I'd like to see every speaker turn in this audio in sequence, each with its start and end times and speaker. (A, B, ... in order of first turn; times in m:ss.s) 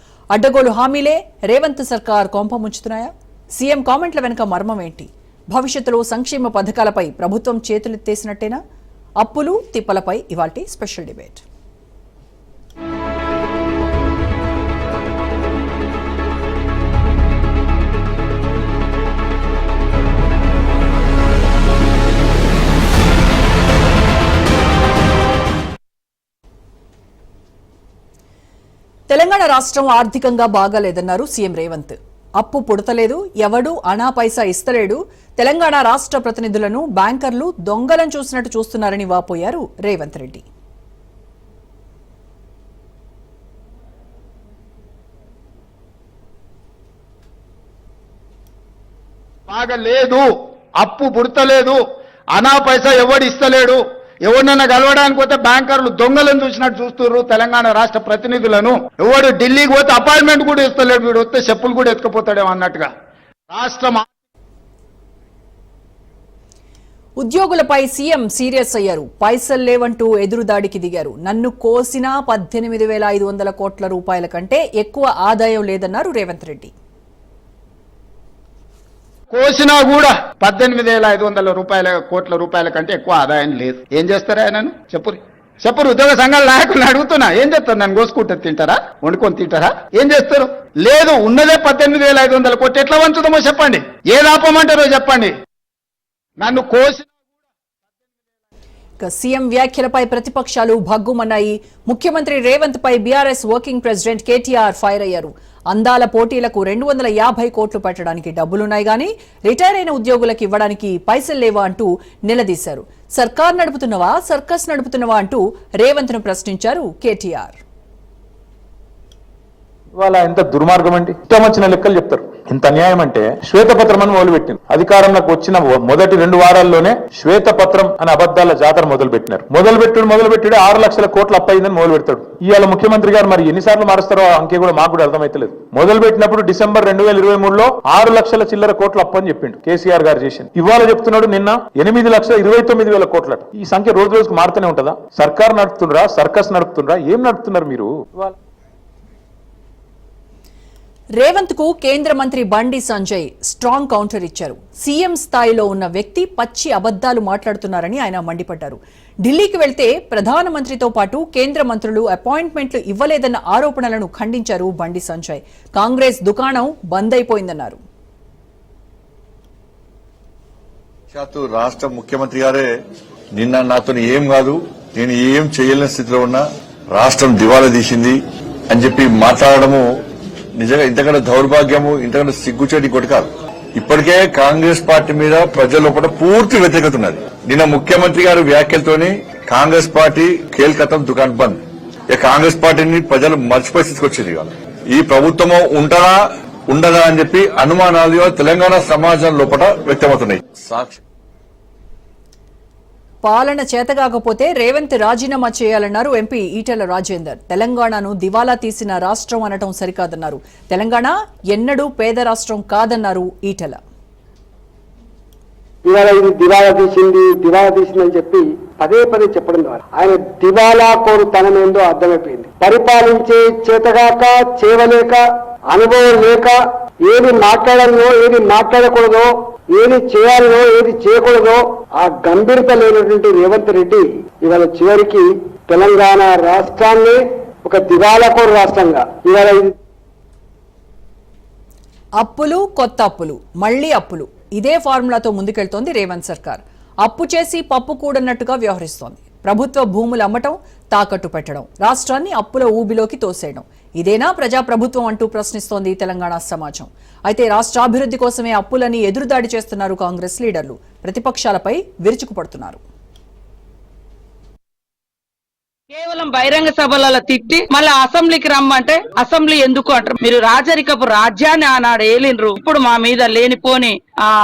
0:00.3-0:08.6 A
0:09.2-0:11.4 A
0:29.1-0:40.4 A
0:49.5-0:50.3 B
0:50.8-0:51.8 B
0:52.3-1:02.9 B
1:03.5-1:04.1 B
1:07.2-1:16.7 A
1:19.3-1:35.3 B
1:36.4-1:37.1 B
1:39.0-1:57.6 A
2:00.0-2:28.4 C
2:31.2-2:47.8 A
2:51.1-2:52.7 D
2:53.3-2:58.2 D
2:58.7-2:59.8 D
3:00.6-3:11.6 D
3:12.1-3:21.0 D
3:23.2-3:33.8 A
3:36.5-3:38.4 E
3:38.9-3:44.1 E
3:44.7-3:45.2 E
3:45.8-3:46.5 E
3:47.5-3:49.2 E
3:49.8-3:51.6 E
3:52.3-3:54.0 E
3:54.5-3:55.2 E
3:55.8-3:57.1 E
3:57.7-3:59.7 E
4:02.2-4:22.8 A
4:25.9-4:34.0 F